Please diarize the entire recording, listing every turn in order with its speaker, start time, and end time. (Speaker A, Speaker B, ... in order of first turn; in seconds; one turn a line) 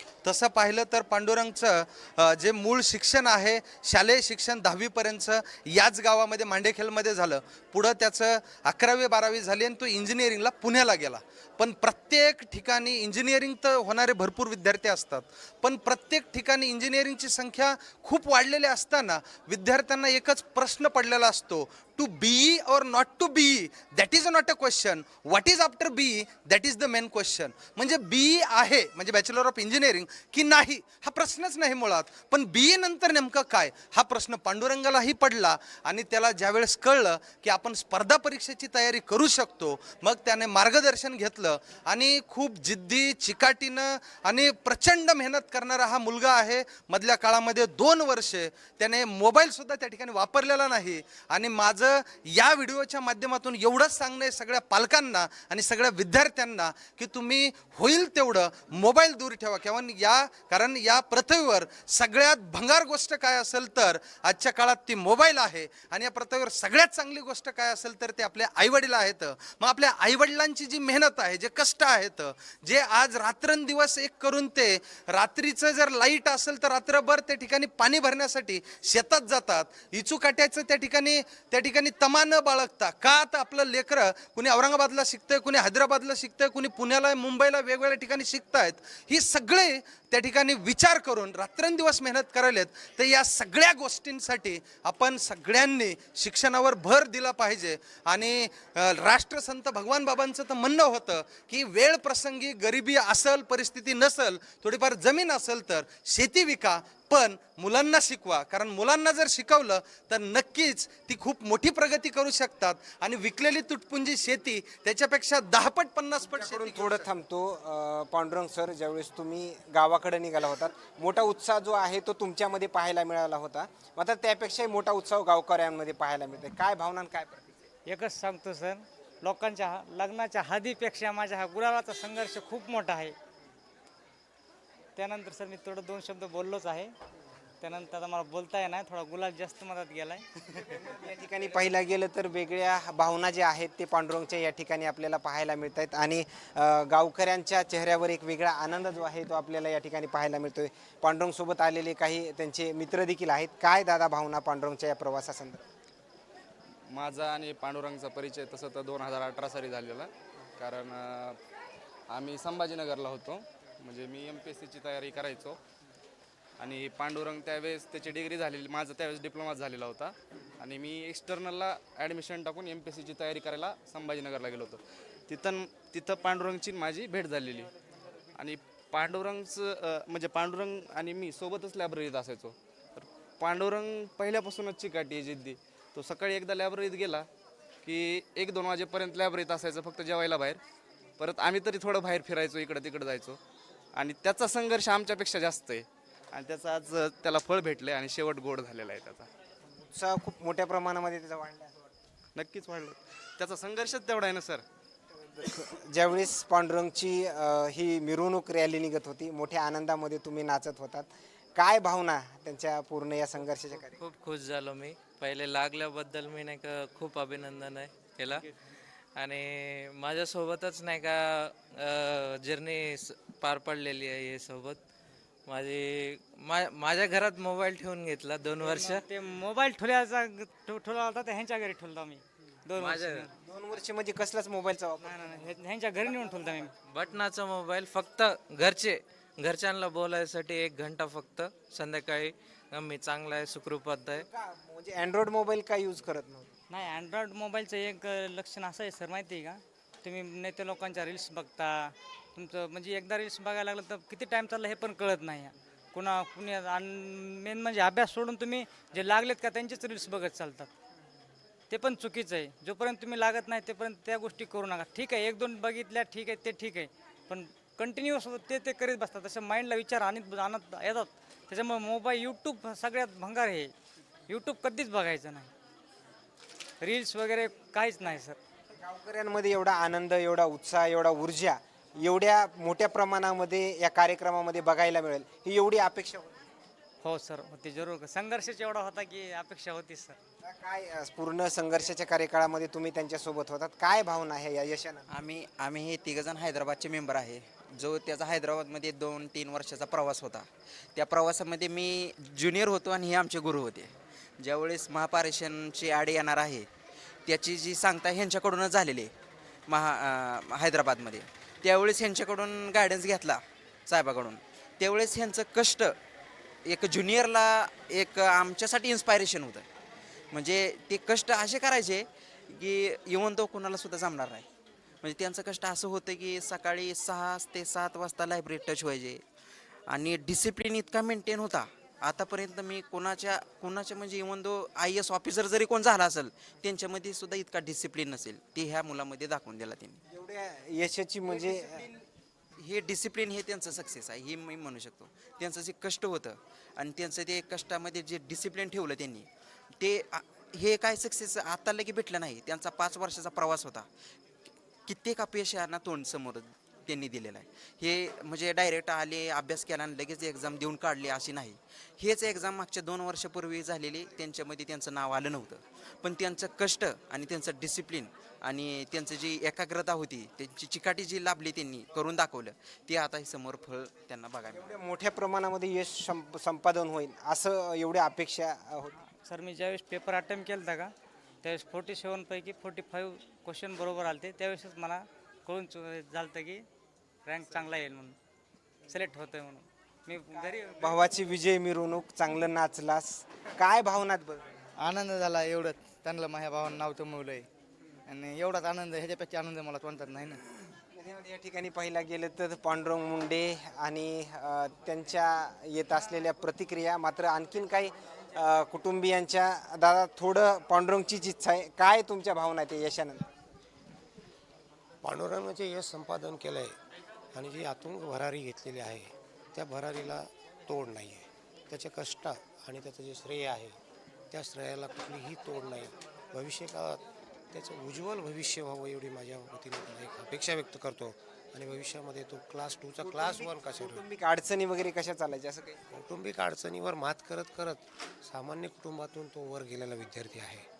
Speaker A: 0.2-117.1
Speaker B: 116.3-127.6
Speaker C: 127.9-133.2
Speaker C: 135.0-136.9
Speaker C: 137.6-140.2
Speaker B: 140.6-155.7
Speaker D: 156.9-161.4
Speaker D: 162.1-165.6
Speaker D: 166.6-177.7
Speaker D: 178.3-187.3
Speaker D: 187.8-190.6
Speaker D: 191.2-193.4
Speaker D: 194.0-199.3
Speaker B: 199.9-201.7
Speaker D: 202.3-204.7
Speaker B: 205.3-214.0
Speaker E: 213.8-218.5
Speaker E: 219.2-224.8
Speaker E: 225.5-229.1
Speaker C: 228.6-233.3
Speaker E: 232.8-233.3
Speaker B: 233.4-235.4
Speaker C: 235.0-236.7
Speaker B: 236.0-236.7
Speaker E: 236.9-244.3
Speaker B: 244.2-246.5
Speaker C: 246.7-260.7
Speaker C: 261.7-273.7
Speaker C: 274.3-275.5
Speaker C: 276.8-278.4
Speaker B: 278.8-286.4
Speaker C: 287.0-290.2
Speaker B: 290.4-295.1
Speaker F: 295.1-306.7
Speaker F: 307.3-309.1
Speaker F: 309.7-315.9
Speaker F: 316.7-319.7
Speaker F: 320.3-324.5
Speaker F: 325.0-329.2
Speaker F: 329.9-340.0
Speaker B: 340.1-341.9
Speaker F: 341.3-341.8
Speaker F: 342.6-349.3
Speaker F: 349.8-353.9
Speaker F: 354.9-374.7
Speaker B: 374.5-379.0
Speaker C: 379.2-380.9
Speaker C: 381.4-386.6
Speaker C: 387.3-388.1
Speaker C: 388.9-391.0
Speaker B: 390.8-394.4
Speaker G: 394.8-397.5
Speaker G: 398.1-400.5
Speaker B: 400.9-413.3
Speaker H: 415.0-416.8
Speaker H: 417.3-423.8
Speaker H: 424.3-434.0
Speaker B: 433.0-435.8
Speaker H: 435.9-440.7